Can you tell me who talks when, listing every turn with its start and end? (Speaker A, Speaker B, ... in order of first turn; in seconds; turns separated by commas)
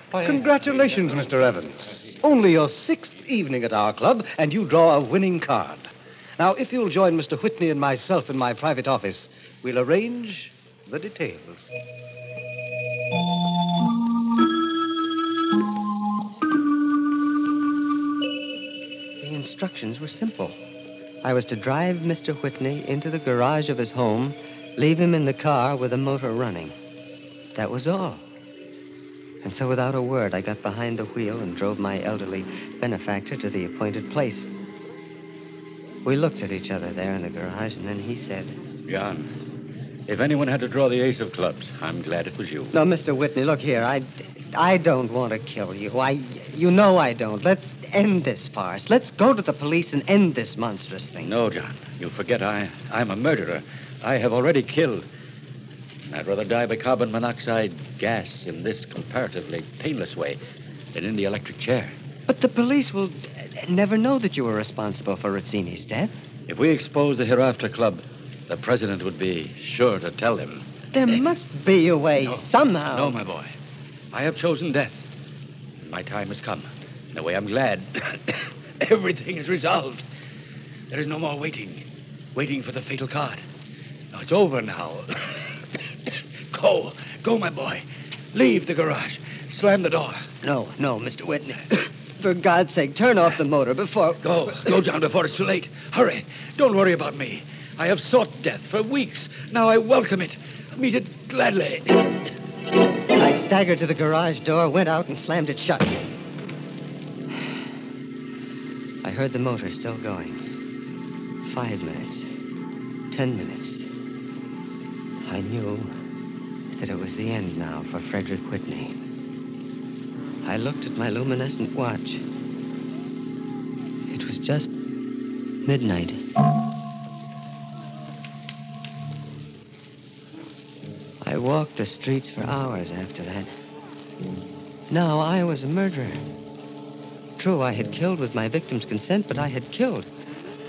Speaker A: 0.1-11.7, Speaker B: 19.2-20.6, Speaker B: 21.2-26.8, Speaker B: 27.6-28.2, Speaker B: 29.4-34.5, Speaker B: 36.0-38.5, Speaker C: 38.9-39.3, Speaker C: 40.1-42.8, Speaker B: 42.7-51.3, Speaker C: 51.2-55.1, Speaker C: 56.1-60.4, Speaker C: 60.9-62.0, Speaker B: 62.3-66.1, Speaker C: 66.5-70.7, Speaker B: 70.9-73.2, Speaker C: 72.2-73.5, Speaker C: 74.1-75.1, Speaker C: 75.8-80.0, Speaker C: 80.9-83.4, Speaker C: 84.1-85.3, Speaker C: 86.5-90.3, Speaker B: 90.4-94.2, Speaker C: 94.2-102.1, Speaker B: 103.1-106.0, Speaker B: 109.0-110.4, Speaker B: 111.4-112.3, Speaker B: 113.1-113.9, Speaker B: 115.2-115.9, Speaker B: 116.8-119.0, Speaker B: 120.4-122.2, Speaker B: 124.1-124.7, Speaker B: 125.7-126.2, Speaker B: 131.2-133.5, Speaker B: 134.9-136.2, Speaker B: 137.4-140.1